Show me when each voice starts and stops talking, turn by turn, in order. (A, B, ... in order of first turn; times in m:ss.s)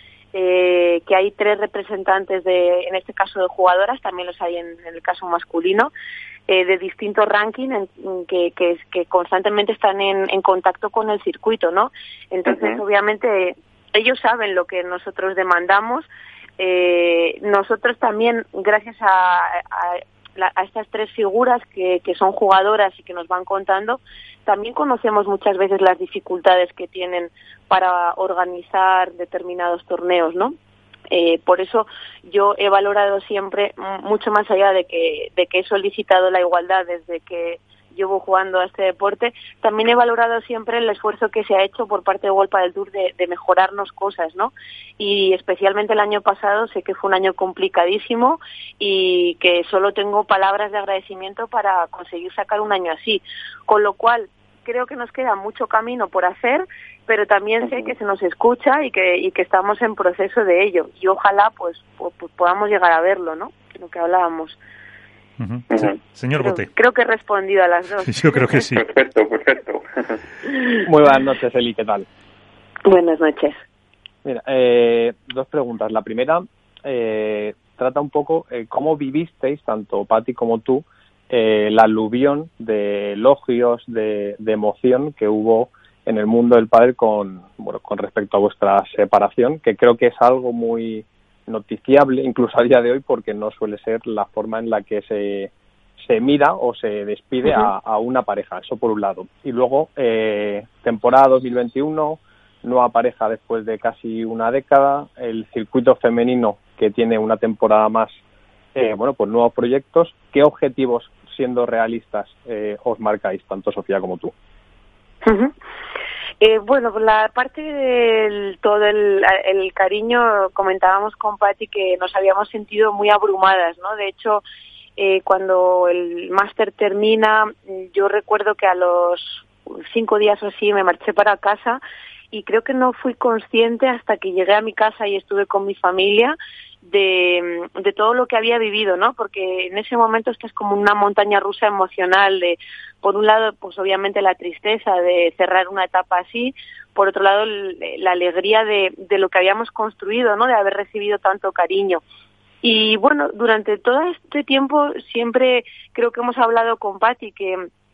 0:00.3-0:05.9 A
0:06.5-0:30.5 A
0:12.5-0:12.8 B
0:31.1-1:04.6 A
0:57.6-0:57.9 B
1:05.4-1:06.7 C
1:05.7-1:06.0 B
1:06.4-1:08.5 A
1:08.1-1:08.8 C
1:08.6-1:10.2 B
1:10.8-1:12.1 D
1:12.8-1:13.6 A
1:14.2-1:35.5 D
1:36.0-1:48.2 D
1:48.8-1:54.3 D
1:55.2-1:55.5 A
1:56.4-2:04.4 A
2:05.0-2:32.0 A
2:32.6-2:37.6 A